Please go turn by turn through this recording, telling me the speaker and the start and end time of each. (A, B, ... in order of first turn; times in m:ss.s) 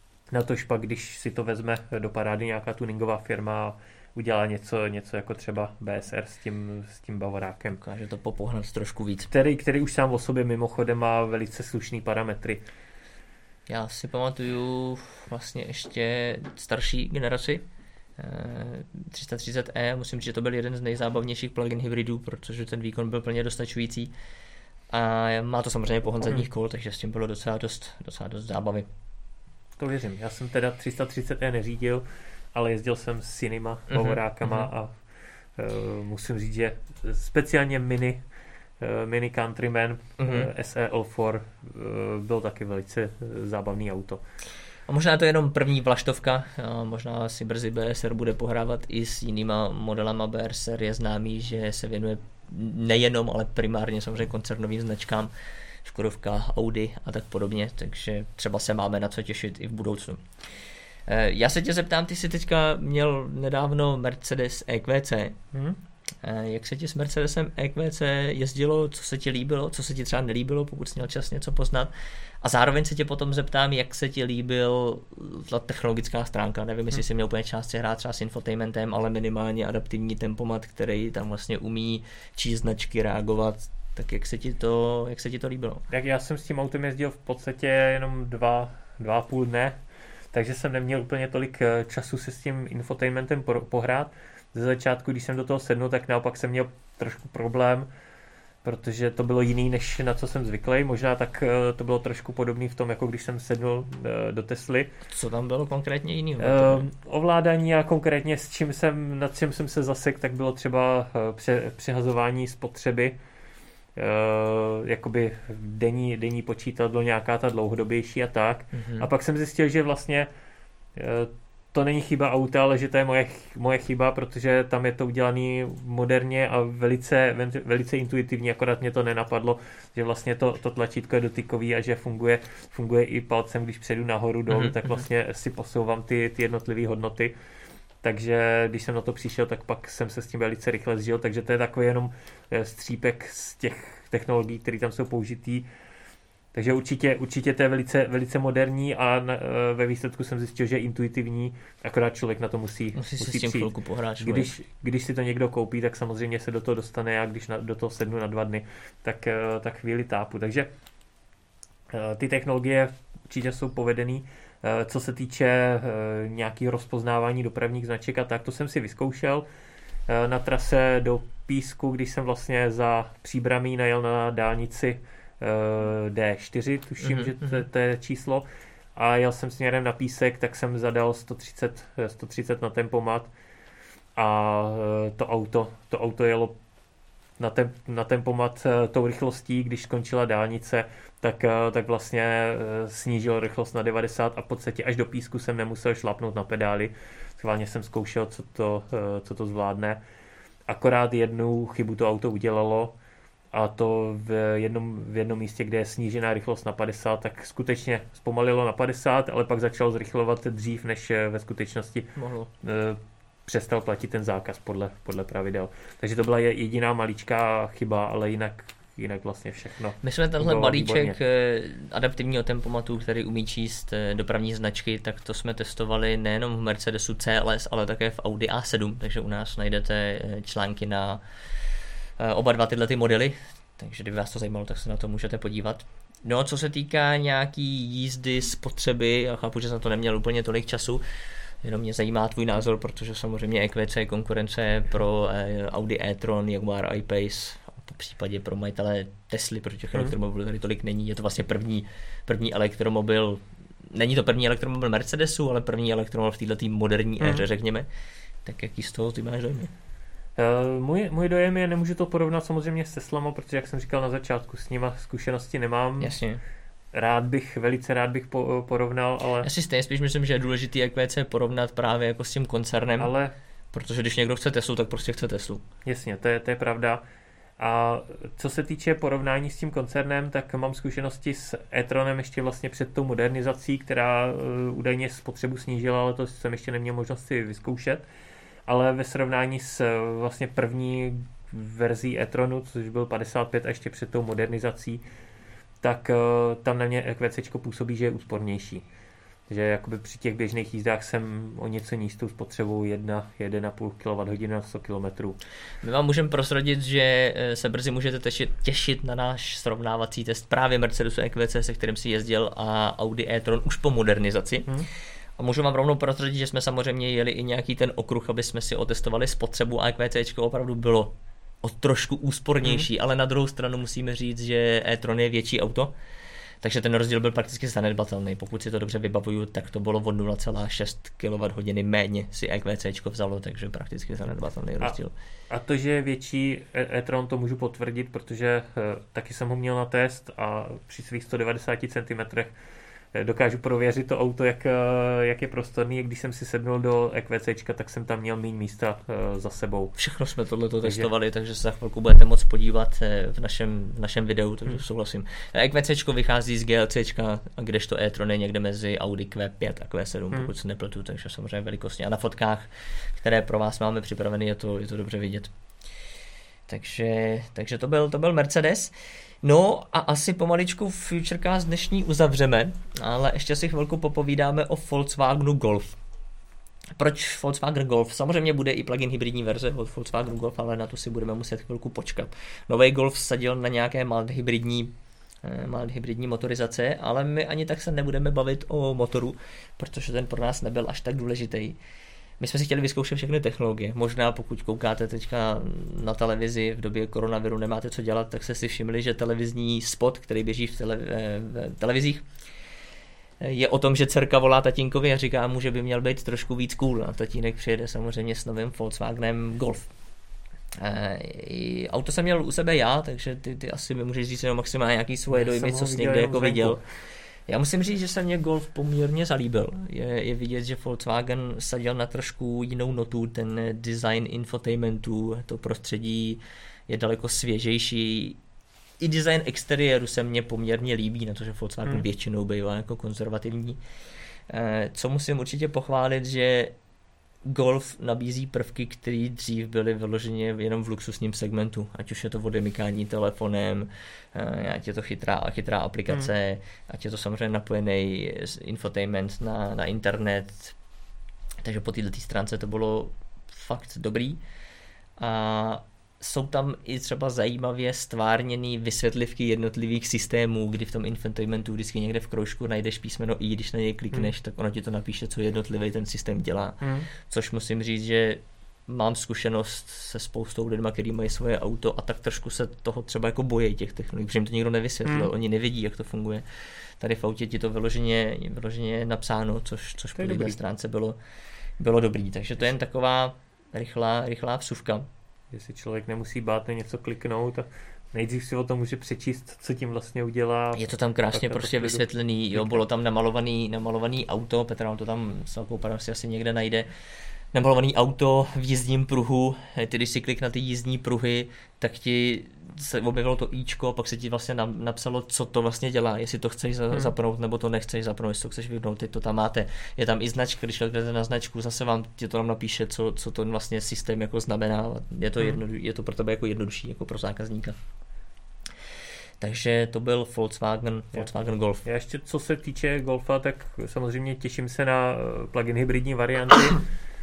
0:00.3-0:07.8 A
0:07.8-0:09.3 B
0:09.3-0:12.6 A
0:13.7-0:17.6 B
0:18.2-0:24.1 B
0:24.9-0:28.9 B
0:29.8-0:35.0 A
0:33.9-0:34.7 B
0:35.6-0:38.2 A
0:38.8-0:44.2 A
0:40.2-0:40.5 B
0:44.9-0:55.3 B
0:55.8-1:00.2 B
1:01.1-1:05.4 B
1:05.5-1:05.8 A
1:06.2-1:11.9 B
1:12.4-1:25.8 B
1:25.9-1:29.8 A
1:30.3-1:37.9 A
1:38.6-1:44.9 A
1:45.1-1:46.9 B
1:46.4-1:53.2 A
1:54.0-2:00.3 A
1:58.7-1:59.1 B
2:01.0-2:17.3 A
2:14.5-2:15.0 B
2:18.0-2:25.7 A
2:26.5-2:40.7 A
2:32.9-2:34.5 B
2:41.9-2:49.4 A
2:50.1-3:03.3 A
2:57.0-2:57.6 B
3:04.2-3:06.6 A
3:07.4-3:20.0 A
3:20.7-3:23.0 A
3:23.5-3:32.1 A
3:32.2-3:32.5 B
3:32.6-3:41.2 A
3:40.0-3:51.2 B
3:52.2-4:01.0 B
4:01.6-4:17.9 B
4:17.2-4:17.4 A
4:18.4-4:19.7 B
4:20.4-4:26.1 A
4:26.0-4:26.4 B
4:26.9-4:29.5 A
4:29.4-4:33.1 B
4:33.0-4:33.3 A
4:33.7-4:35.6 B
4:35.8-4:37.0 A
4:37.6-4:48.1 A
4:48.7-4:55.0 A
4:55.8-4:58.9 A
4:59.5-5:05.4 A
5:05.8-5:14.7 B
5:15.4-5:25.9 B
5:26.6-5:35.1 B
5:35.5-5:42.5 A
5:43.1-5:50.0 A
5:50.0-6:05.5 B
5:50.8-5:51.1 A
6:06.7-6:16.0 B
6:17.0-6:31.8 B
6:32.4-6:42.3 B
6:43.4-6:49.9 B
6:50.8-6:56.8 B
6:55.3-6:56.8 A
6:57.5-7:08.4 B
7:09.0-7:13.8 B
7:14.5-7:16.7 B
7:17.4-7:30.8 B
7:31.6-7:34.4 B
7:35.2-7:56.4 B
7:46.8-7:47.1 A
7:55.0-7:55.3 A
7:57.0-8:01.2 B
8:00.2-8:00.6 A
8:01.8-8:05.1 B
8:05.5-8:12.8 A
8:10.8-8:16.9 B
8:17.5-8:37.8 B
8:39.4-8:41.9 B
8:41.8-8:46.8 A